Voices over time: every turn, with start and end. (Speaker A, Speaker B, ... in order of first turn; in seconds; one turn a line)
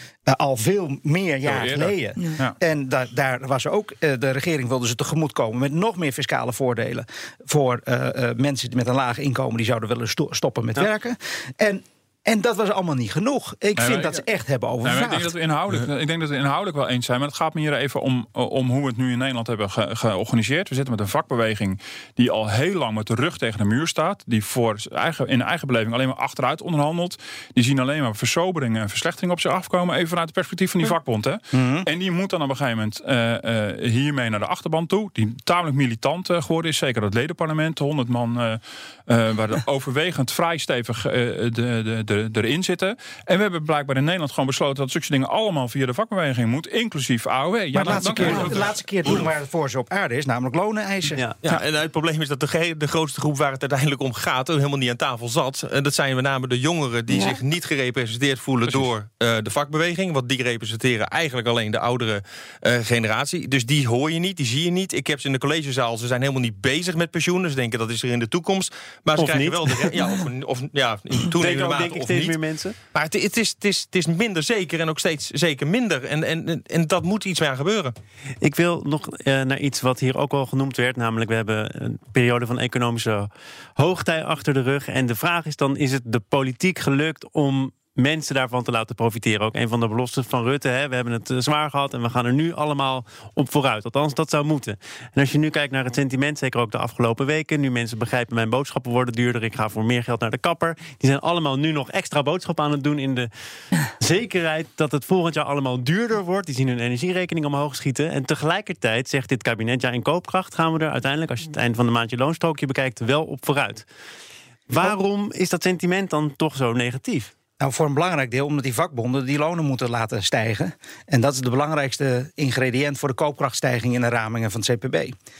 Speaker A: 0.2-15.3
Speaker B: 1.4-2.5
Speaker B: 13.8-14.2
Speaker B: 14.8-49.1
Speaker A: 31.5-31.9
Speaker A: 47.7-51.2
Speaker C: 51.4-72.3
Speaker D: 69.2-70.1
Speaker D: 71.3-72.8
Speaker C: 72.9-77.9
Speaker D: 78.4-103.3
Speaker D: 104.0-113.8
Speaker D: 114.7-117.3
Speaker A: 117.6-125.1